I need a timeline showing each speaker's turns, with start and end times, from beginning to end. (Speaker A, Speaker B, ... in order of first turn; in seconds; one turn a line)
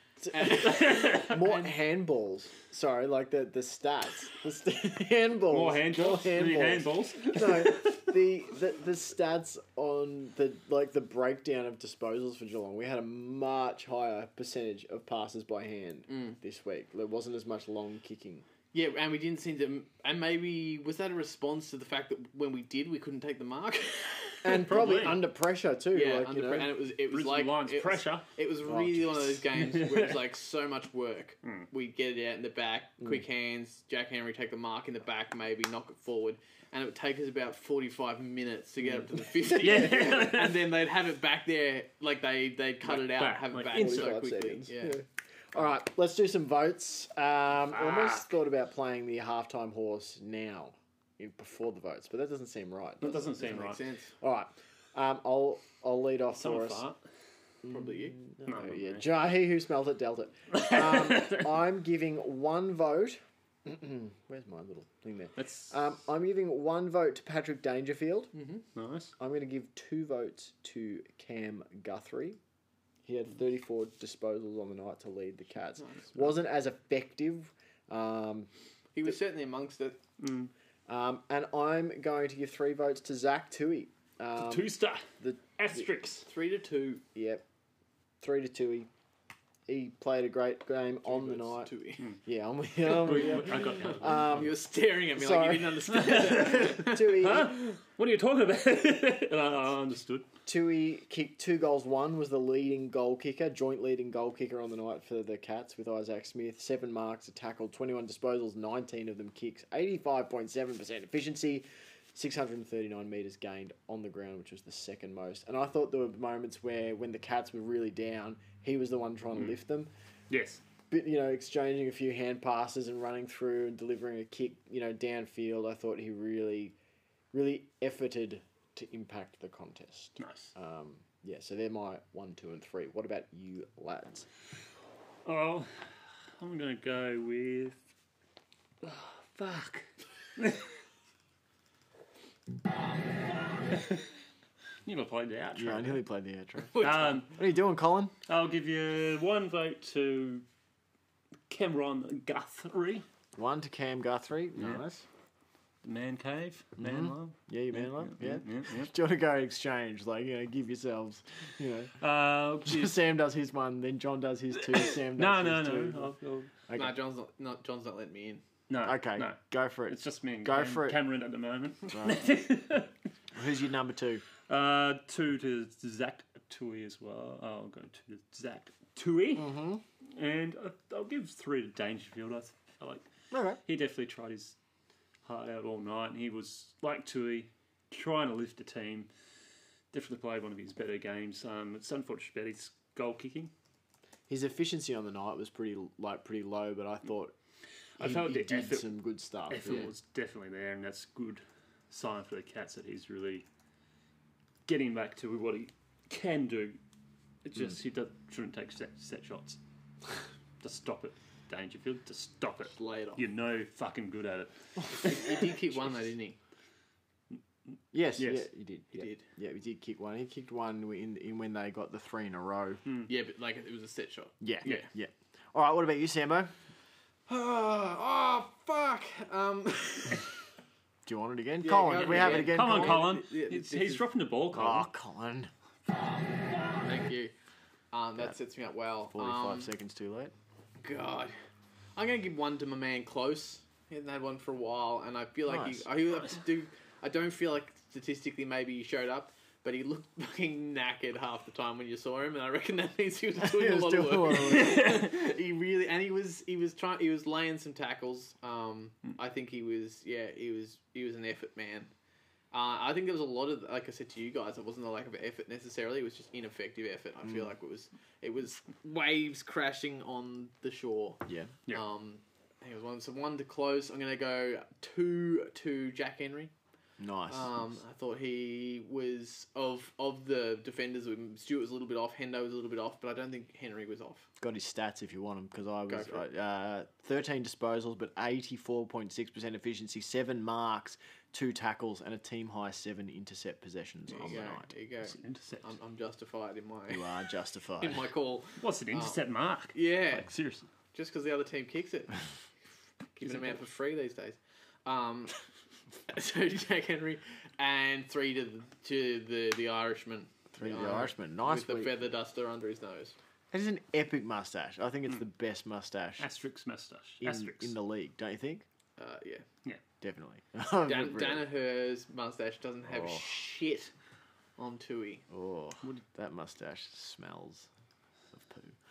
Speaker A: 0.2-18.4
Speaker B: 0.3-1.7
Speaker C: 0.6-1.4
Speaker C: 5.5-8.1
Speaker B: 16.1-16.4
Speaker B: 18.7-25.1
Speaker A: 24.4-26.7
Speaker C: 24.7-25.2
Speaker B: 25.9-45.0
Speaker C: 27.1-28.3
Speaker A: 28.6-29.4
Speaker C: 29.6-30.2
Speaker C: 39.5-40.7
Speaker C: 42.8-44.2
Speaker A: 43.7-53.6
Speaker C: 47.7-48.2
Speaker C: 53.0-53.8
Speaker B: 53.4-54.1
Speaker A: 54.2-56.8
Speaker C: 56.3-57.0
Speaker B: 57.6-58.2
Speaker A: 57.6-68.3
Speaker C: 58.5-59.0
Speaker C: 60.5-61.5
Speaker C: 65.4-65.7
Speaker B: 68.3-68.6
Speaker C: 68.7-69.1
Speaker A: 69.2-72.4
Speaker A: 73.0-78.5
Speaker B: 75.8-76.2
Speaker B: 78.9-80.0
Speaker C: 80.2-80.5
Speaker A: 80.9-85.9
Speaker C: 84.4-85.0
Speaker C: 85.6-86.2
Speaker B: 86.2-87.0
Speaker A: 87.1-87.4
Speaker A: 88.2-88.9
Speaker A: 89.7-91.7
Speaker B: 91.0-92.0
Speaker A: 92.2-94.6
Speaker C: 92.8-94.5
Speaker B: 94.1-97.3
Speaker A: 95.2-97.6
Speaker C: 95.9-100.3
Speaker A: 100.5-119.9
Speaker C: 120.3-120.6
Speaker A: 120.9-126.7
Speaker A: 127.3-134.3
Speaker C: 130.2-130.5
Speaker C: 135.2-135.7
Speaker C: 136.4-137.8
Speaker C: 138.8-139.8
Speaker C: 140.4-140.7
Speaker C: 144.8-146.0
Speaker A: 145.5-148.1
Speaker B: 146.7-147.2
Speaker C: 146.8-147.3
Speaker C: 148.3-150.4
Speaker C: 151.5-153.1
Speaker A: 153.3-155.0
Speaker C: 155.8-158.9
Speaker A: 156.8-162.0
Speaker C: 162.0-162.9
Speaker A: 162.6-166.1
Speaker C: 164.9-166.5
Speaker A: 166.7-166.9
Speaker B: 166.7-168.4
Speaker C: 168.7-172.9
Speaker A: 168.8-171.0
Speaker A: 171.9-172.2
Speaker A: 173.3-174.2
Speaker C: 174.5-183.1
Speaker A: 179.3-179.8
Speaker A: 183.3-183.6
Speaker C: 183.6-184.6
Speaker C: 185.2-189.1
Speaker C: 189.9-193.5
Speaker A: 194.3-197.3
Speaker C: 198.0-198.9
Speaker A: 198.0-199.9
Speaker C: 199.5-203.4
Speaker C: 204.7-206.8
Speaker C: 207.4-209.6
Speaker C: 210.6-215.3
Speaker B: 212.7-213.2
Speaker B: 215.0-216.4
Speaker A: 217.9-222.8
Speaker C: 218.2-218.5
Speaker B: 218.9-219.2
Speaker B: 223.1-224.9
Speaker A: 224.4-226.5
Speaker B: 227.3-230.3
Speaker A: 231.1-233.1
Speaker B: 231.6-234.0
Speaker C: 231.9-234.9
Speaker A: 234.5-235.5
Speaker B: 236.8-237.3
Speaker B: 237.9-239.7
Speaker A: 239.1-240.3
Speaker B: 240.8-241.3
Speaker B: 241.9-261.9
Speaker A: 245.5-245.8
Speaker A: 253.4-255.0
Speaker C: 254.5-255.0
Speaker B: 262.5-276.5
Speaker A: 271.2-271.5
Speaker A: 277.0-277.6
Speaker B: 277.3-284.3
Speaker A: 284.4-294.7
Speaker B: 285.9-286.2
Speaker B: 294.1-297.1
Speaker C: 295.0-295.7
Speaker A: 296.9-298.1
Speaker B: 297.8-299.2
Speaker C: 298.6-300.7
Speaker B: 299.7-300.3
Speaker B: 300.9-302.2
Speaker B: 303.1-305.4
Speaker B: 306.1-313.1
Speaker A: 310.5-311.9
Speaker A: 313.5-316.3
Speaker C: 316.2-317.7
Speaker A: 317.2-318.6
Speaker B: 319.0-319.4
Speaker A: 320.0-321.4
Speaker B: 320.8-323.9
Speaker A: 322.9-323.2
Speaker B: 324.6-325.2
Speaker A: 325.3-327.7
Speaker A: 328.3-328.8